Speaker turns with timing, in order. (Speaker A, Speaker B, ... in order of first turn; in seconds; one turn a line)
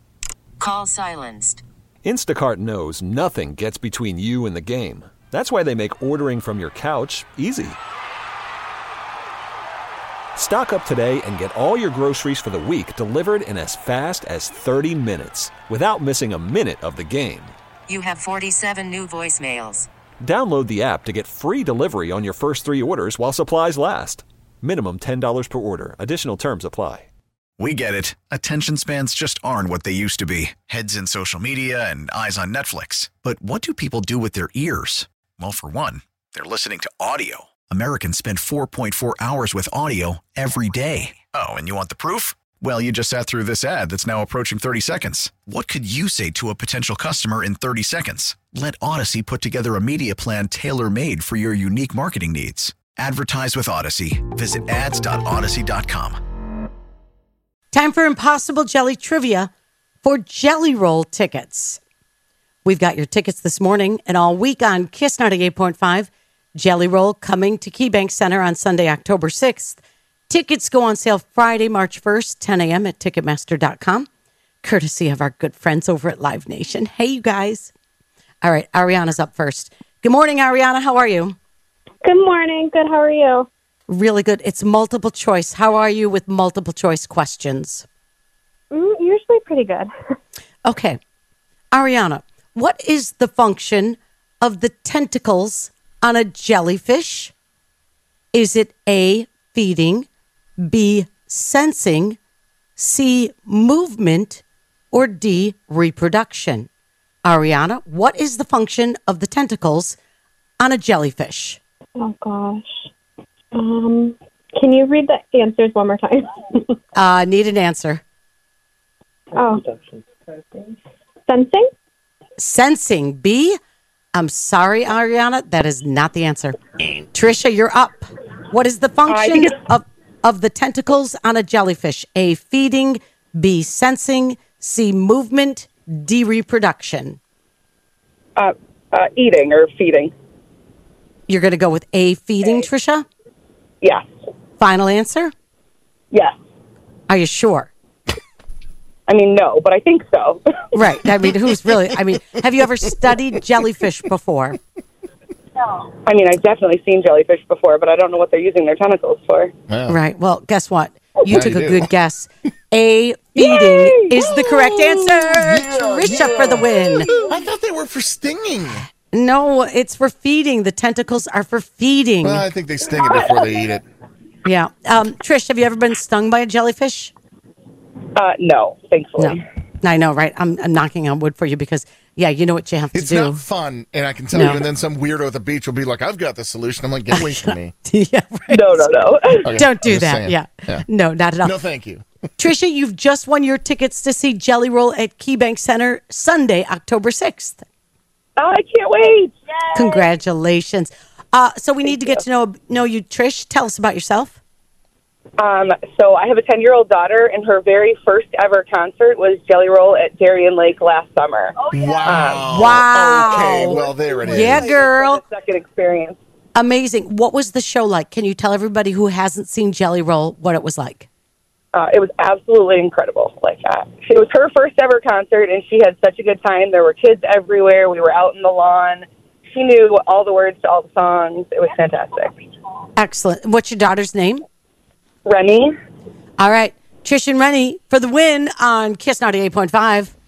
Speaker A: 0.6-1.6
Speaker B: 2.0-7.8
Speaker B: 10.3-17.6
Speaker A: 17.9-19.9
Speaker B: 20.2-27.1
Speaker C: 27.6-56.2
Speaker D: 57.7-59.5
Speaker D: 60.0-61.8
Speaker D: 62.6-74.1
Speaker D: 74.6-77.7
Speaker D: 78.4-81.3
Speaker E: 82.0-83.5
Speaker D: 83.9-87.8
Speaker E: 88.7-89.9
Speaker D: 90.6-91.0
Speaker D: 91.7-97.3
Speaker D: 98.3-100.1
Speaker D: 100.6-102.2
Speaker D: 102.8-106.7
Speaker D: 107.2-110.0
Speaker D: 110.6-111.6
Speaker E: 112.0-112.9
Speaker E: 113.5-116.7
Speaker D: 117.0-118.0
Speaker E: 119.3-119.8
Speaker E: 121.3-121.7
Speaker D: 122.4-123.5
Speaker D: 124.1-137.2
Speaker F: 129.1-129.5
Speaker F: 138.3-140.1
Speaker D: 141.3-143.0
Speaker F: 143.8-144.1
Speaker D: 144.6-145.3
Speaker D: 147.1-147.7
Speaker F: 149.1-150.6
Speaker D: 150.7-154.6
Speaker F: 155.7-159.5
Speaker G: 159.7-160.0
Speaker D: 159.9-167.1
Speaker G: 161.3-161.9
Speaker F: 163.4-164.3
Speaker G: 164.2-168.8
Speaker D: 169.1-172.5
Speaker G: 172.2-173.8
Speaker D: 174.4-177.1
Speaker F: 178.2-179.4
Speaker D: 179.2-183.4
Speaker G: 182.9-187.7
Speaker D: 184.3-184.6
Speaker D: 187.1-188.9
Speaker F: 188.5-189.5
Speaker G: 189.4-190.8
Speaker D: 189.5-191.6
Speaker G: 191.4-192.0
Speaker D: 192.4-197.6
Speaker F: 198.4-199.9
Speaker D: 199.7-204.4
Speaker F: 201.9-202.2
Speaker F: 205.4-212.7
Speaker G: 211.7-214.8
Speaker D: 212.4-215.2
Speaker F: 213.3-216.2
Speaker D: 216.5-221.1
Speaker F: 221.7-232.3
Speaker D: 232.9-234.4
Speaker F: 235.2-235.7
Speaker D: 236.4-240.1